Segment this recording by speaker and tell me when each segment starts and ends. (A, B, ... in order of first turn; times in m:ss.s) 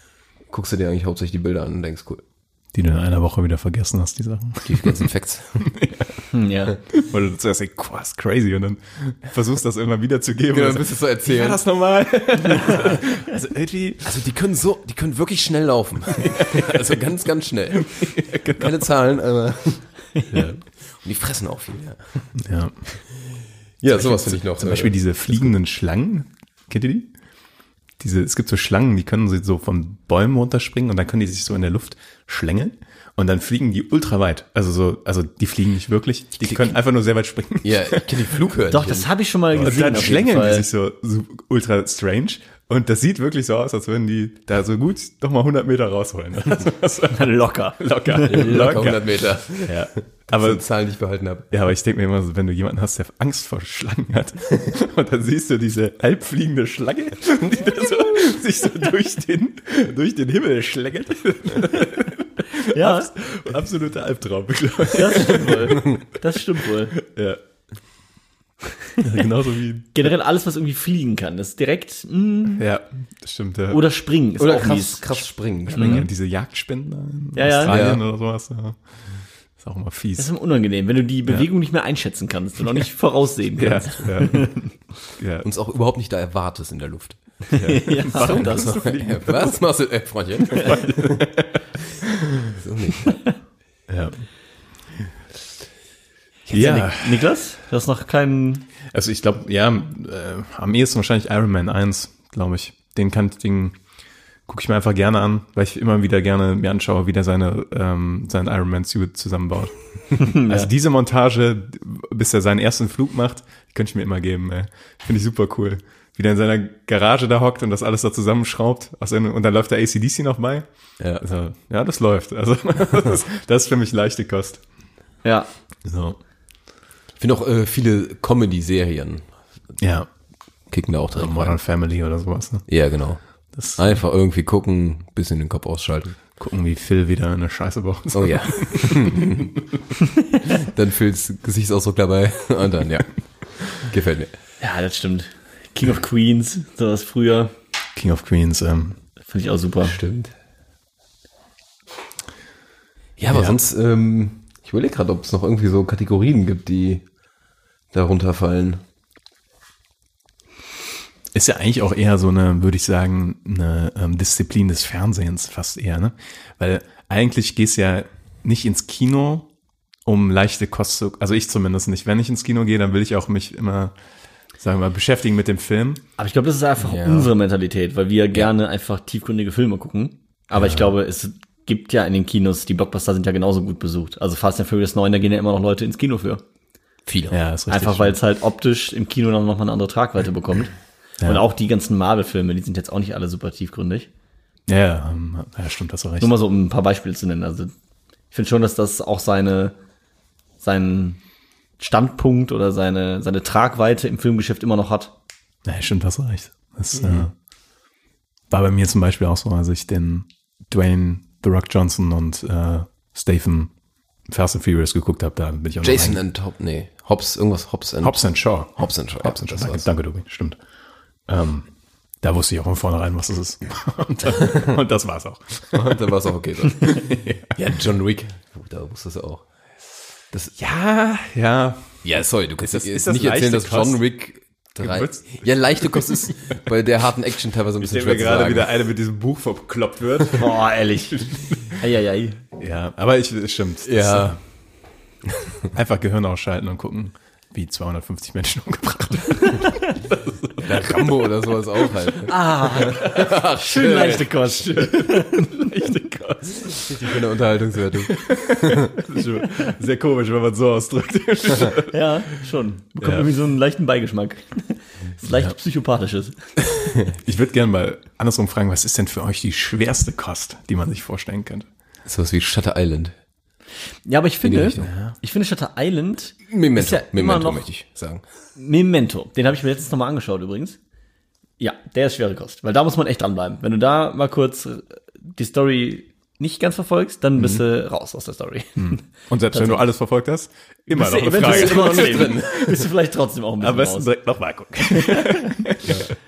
0:00.5-0:02.2 A
0:02.7-0:05.1 B
0:04.7-0:05.6 A
0:05.6-0:06.2 B
0:06.3-0:06.8 C
0:06.9-0:14.1 B
0:10.5-0:11.6 A
0:14.0-0:19.9 A
0:16.3-0:16.9 B
0:17.8-0:18.8 B
0:20.3-0:20.6 B
0:20.9-0:22.3 A
0:22.4-0:22.8 B
0:23.8-0:25.5 A
0:23.9-0:27.1 B
0:28.0-0:38.3 B
0:36.4-0:36.8 A
0:37.6-0:39.1 A
0:38.7-0:40.7 C
0:39.6-0:50.6 B
0:39.6-0:40.0 A
0:47.1-0:48.4 C
0:48.3-0:51.5 A
0:51.5-1:06.0 B
1:02.7-1:03.1 C
1:05.0-1:07.0 C
1:07.0-1:07.4 B
1:09.0-1:10.1 B
1:10.0-1:12.6 C
1:12.6-1:13.8 B
1:13.7-1:16.1 C
1:14.4-1:16.1 A
1:15.7-1:18.8 B
1:17.4-1:17.8 C
1:17.7-1:18.0 A
1:19.6-1:20.3 B
1:20.2-1:24.7 C
1:23.6-1:24.6 B
1:25.2-1:25.5 B
1:25.4-1:27.2 A
1:27.5-1:29.0 C
1:27.6-1:29.6 B
1:28.1-1:31.2 A
1:30.5-1:31.6 B
1:32.4-1:33.2 A
1:33.9-1:34.3 B
1:36.5-1:38.7 C
1:36.5-1:37.2 B
1:38.9-1:43.8 B
1:44.5-2:00.7 B
1:50.2-1:50.7 C
2:01.2-2:04.6 B
2:05.2-2:05.5 C
2:05.8-2:06.2 B
2:07.2-2:09.3 A
2:09.8-2:10.1 B
2:10.7-2:11.6 A
2:11.2-2:12.7 B
2:12.7-2:13.2 A
2:13.5-2:14.0 B
2:13.8-2:16.2 A
2:16.4-2:19.5 B
2:18.1-2:19.5 A
2:20.5-2:23.1 A
2:23.7-2:24.3 A
2:24.6-2:27.5 C
2:28.0-2:29.0 B
2:29.3-2:30.0 C
2:29.8-2:30.3 A
2:33.2-2:37.0 A
2:33.3-2:33.6 B
2:37.9-2:38.8 A
2:41.3-2:49.5 B
2:50.0-2:53.9 B
2:54.6-2:56.0 B
2:56.2-3:06.4 C
2:56.8-2:57.3 A
3:00.6-3:00.9 B
3:07.1-3:07.4 A
3:07.3-3:08.2 B
3:07.7-3:14.1 C
3:14.7-3:16.3 B
3:16.2-3:17.7 C
3:18.3-3:19.8 C
3:20.6-3:21.2 C
3:21.8-3:25.1 C
3:25.7-3:27.3 B
3:28.5-3:33.7 B
3:34.3-3:36.2 B
3:35.8-3:39.9 A
3:38.0-3:40.6 B
3:41.3-3:41.7 B
3:42.2-3:46.0 B
3:45.8-3:49.4 A
3:46.8-3:47.6 B
3:50.6-3:52.0 B
3:52.0-3:58.7 A
3:52.6-3:54.0 B
3:54.8-3:56.6 B
3:57.8-4:00.6 B
4:00.3-4:02.4 C
4:01.1-4:01.8 B
4:02.6-4:04.4 B
4:03.8-4:04.4 A
4:05.7-4:11.1 B
4:10.6-4:14.5 A
4:12.3-4:15.7 C
4:12.9-4:13.2 B
4:14.6-4:16.9 B
4:16.7-4:18.9 A
4:18.0-4:22.4 B
4:21.9-4:26.4 C
4:23.0-4:23.3 B
4:26.8-4:27.0 A
4:27.2-4:31.7 B
4:32.1-4:33.2 A
4:34.1-4:37.6 C
4:34.4-4:34.9 A
4:34.8-4:35.2 B
4:36.5-4:38.2 A
4:38.6-4:40.8 C
4:41.6-4:49.0 C
4:48.8-4:52.5 B
4:49.5-4:49.8 C
4:50.9-4:54.1 C
4:51.3-4:52.9 A
4:53.6-4:56.0 B
4:55.0-4:55.5 C